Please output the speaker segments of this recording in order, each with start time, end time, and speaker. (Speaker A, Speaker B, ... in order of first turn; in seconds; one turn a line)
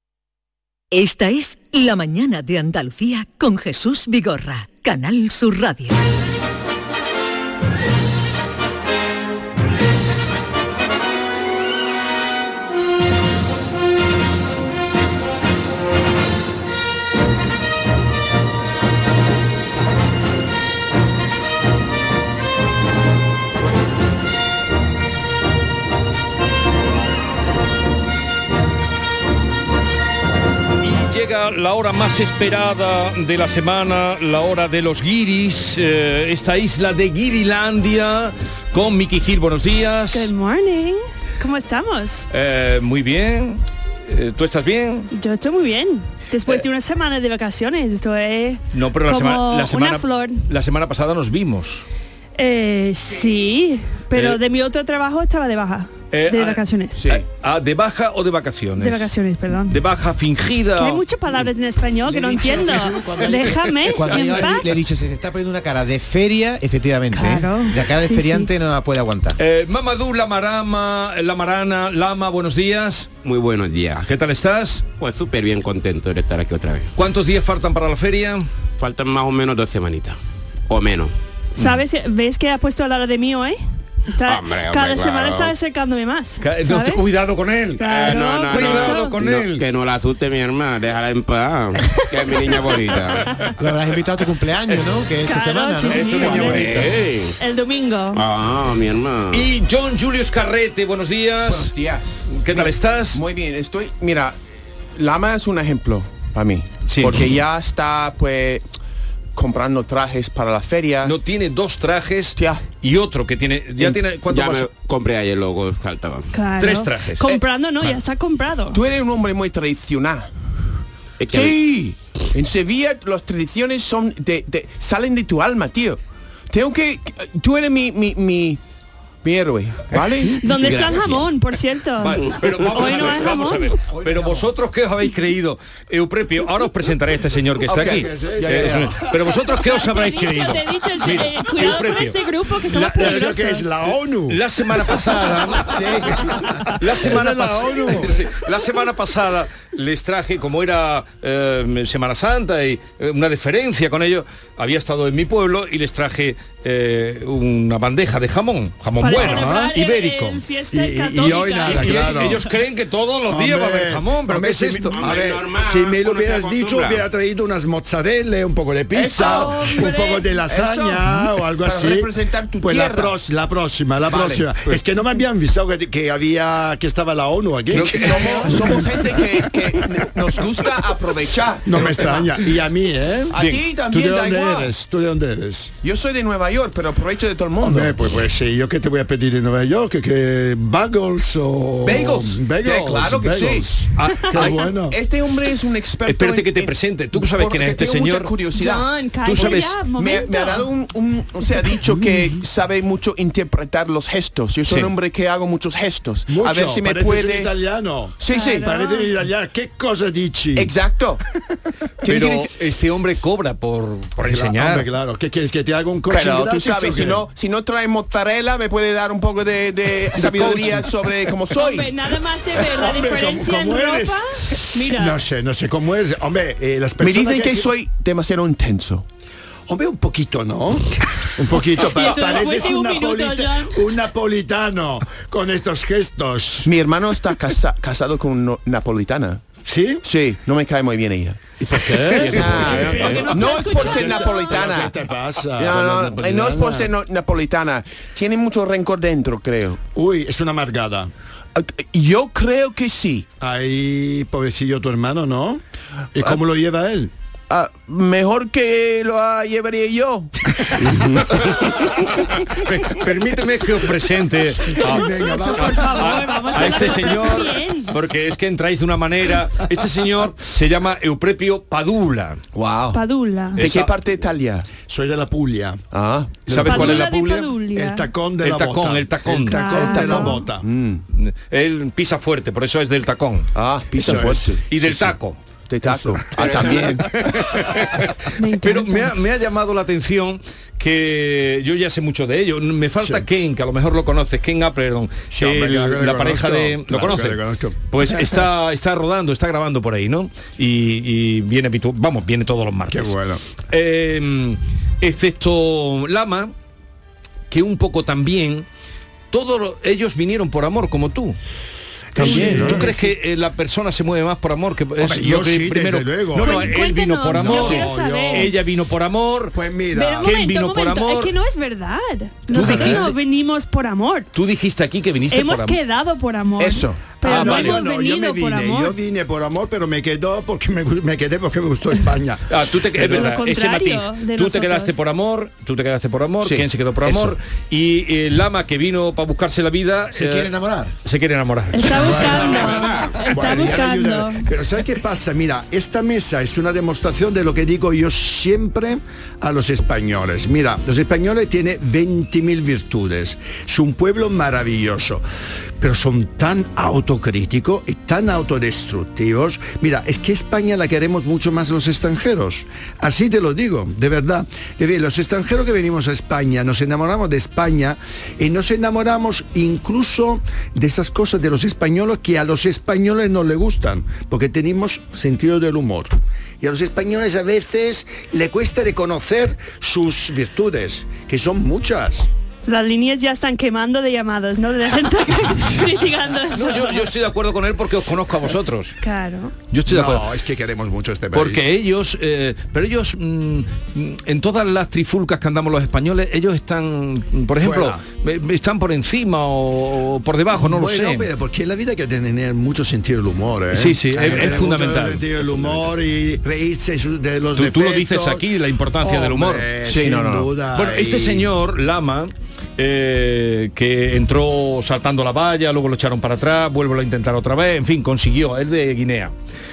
Speaker A: 0.9-6.0
Speaker B: 30.8-40.3
Speaker C: 40.1-42.3
Speaker B: 42.3-45.1
Speaker C: 45.1-50.5
Speaker B: 48.7-51.8
Speaker C: 52.4-57.0
Speaker B: 54.1-54.4
Speaker B: 56.1-59.1
Speaker D: 57.0-57.2
Speaker C: 58.8-59.8
Speaker B: 59.7-61.0
Speaker C: 60.8-64.7
Speaker E: 62.0-69.4
Speaker B: 63.3-64.5
Speaker C: 67.1-68.5
Speaker B: 69.4-73.1
Speaker F: 73.2-74.0
Speaker B: 74.0-74.8
Speaker F: 75.0-76.9
Speaker B: 77.0-78.5
Speaker F: 78.8-80.2
Speaker F: 80.7-81.1
Speaker C: 81.5-87.1
Speaker F: 84.3-85.5
Speaker B: 86.4-87.8
Speaker C: 87.8-89.2
Speaker F: 87.8-93.3
Speaker B: 88.5-89.6
Speaker C: 91.8-93.5
Speaker E: 93.6-96.7
Speaker C: 95.2-96.9
Speaker B: 95.8-97.2
Speaker F: 96.5-97.3
Speaker C: 97.4-98.2
Speaker F: 98.1-99.5
Speaker B: 99.3-101.7
Speaker D: 101.5-104.4
Speaker B: 102.3-103.2
Speaker D: 105.0-108.6
Speaker B: 106.8-107.3
Speaker D: 109.3-111.2
Speaker B: 111.0-114.7
Speaker D: 112.4-112.7
Speaker F: 114.3-116.3
Speaker C: 116.3-118.8
Speaker B: 116.6-117.2
Speaker D: 118.7-120.5
Speaker F: 121.2-121.6
Speaker D: 121.3-128.6
Speaker D: 129.2-131.3
Speaker C: 130.4-133.8
Speaker B: 132.0-143.4
Speaker G: 133.9-134.4
Speaker D: 137.7-138.9
Speaker G: 137.7-139.3
Speaker C: 139.5-143.7
Speaker G: 142.9-144.4
Speaker B: 144.3-145.9
Speaker D: 145.7-146.4
Speaker G: 146.1-148.3
Speaker B: 146.6-160.4
Speaker C: 159.0-162.5
Speaker G: 159.2-159.7
Speaker G: 160.7-162.4
Speaker B: 161.6-165.2
Speaker G: 163.3-179.4
Speaker F: 164.9-167.0
Speaker D: 168.9-169.9
Speaker C: 169.2-170.3
Speaker D: 170.5-173.1
Speaker D: 174.1-174.5
Speaker B: 177.7-178.8
Speaker D: 177.7-182.4
Speaker G: 181.7-185.7
Speaker D: 183.3-184.7
Speaker D: 185.8-187.9
Speaker G: 187.6-195.0
Speaker D: 191.8-193.7
Speaker B: 193.9-194.8
Speaker D: 194.4-207.5
Speaker B: 196.1-198.3
Speaker C: 198.6-200.7
Speaker B: 199.2-199.8
Speaker B: 204.7-204.9
Speaker G: 206.3-210.7
Speaker D: 208.2-208.8
Speaker C: 208.3-209.1
Speaker D: 210.6-211.2
Speaker D: 212.0-212.5
Speaker B: 212.1-214.9
Speaker G: 214.2-217.2
Speaker D: 216.1-222.1
Speaker G: 220.1-220.9
Speaker C: 221.5-225.2
Speaker G: 222.6-227.7
Speaker D: 227.0-229.1
Speaker G: 229.7-236.7
Speaker C: 231.8-233.8
Speaker D: 236.7-239.4
Speaker G: 239.6-240.0
Speaker D: 240.0-244.9
Speaker G: 241.7-243.3
Speaker B: 241.7-243.9
Speaker C: 242.6-244.8
Speaker G: 243.8-246.9
Speaker D: 245.6-249.8
Speaker G: 249.9-251.1
Speaker D: 251.6-253.3
Speaker G: 253.4-255.6
Speaker G: 256.1-257.1
Speaker D: 257.5-261.6
Speaker B: 262.5-272.4
Speaker G: 264.8-266.3
Speaker C: 264.8-267.9
Speaker D: 272.6-273.0
Speaker C: 272.9-273.6
Speaker B: 273.6-273.9
Speaker D: 273.6-274.7
Speaker G: 274.8-275.8
Speaker D: 275.9-276.4
Speaker G: 276.5-277.1
Speaker B: 276.5-277.5
Speaker C: 276.6-278.1
Speaker G: 277.8-280.7
Speaker B: 278.4-280.3
Speaker C: 279.5-280.5
Speaker D: 280.6-281.1
Speaker B: 281.1-283.5
Speaker D: 283.6-285.1
Speaker G: 283.9-284.6
Speaker B: 284.7-285.4
Speaker D: 285.7-287.2
Speaker G: 285.8-287.8
Speaker B: 286.4-303.1
Speaker C: 288.4-289.1
Speaker G: 293.0-293.2
Speaker G: 295.3-297.8
Speaker G: 302.9-303.4
Speaker B: 303.7-306.5
Speaker B: 307.5-308.7
Speaker B: 309.3-311.4
Speaker G: 312.1-313.2
Speaker B: 312.1-319.6
Speaker G: 315.0-316.8
Speaker C: 316.4-318.5
Speaker G: 317.3-318.6
Speaker D: 317.5-317.9
Speaker G: 319.5-320.3
Speaker C: 319.9-324.3
Speaker B: 320.2-321.3
Speaker B: 322.5-323.2
Speaker G: 322.6-323.0
Speaker B: 324.3-325.8
Speaker C: 325.3-329.0
Speaker D: 326.6-327.2
Speaker B: 327.2-327.8
Speaker G: 327.2-332.5
Speaker B: 332.5-340.5
Speaker C: 333.0-335.0
Speaker D: 336.4-337.3
Speaker E: 340.1-340.9
Speaker B: 341.0-342.5
Speaker C: 341.7-344.4
Speaker G: 342.1-355.2
Speaker F: 342.2-343.5
Speaker G: 355.8-382.3
Speaker C: 382.7-387.1
Speaker B: 386.5-388.9
Speaker C: 389.0-389.6
Speaker B: 389.7-390.2
Speaker G: 389.9-391.6
Speaker B: 391.3-401.3
Speaker G: 397.6-398.0
Speaker G: 400.5-408.4
Speaker B: 403.7-405.8
Speaker B: 407.6-409.8
Speaker G: 409.0-411.5
Speaker D: 409.9-410.5
Speaker B: 410.7-419.3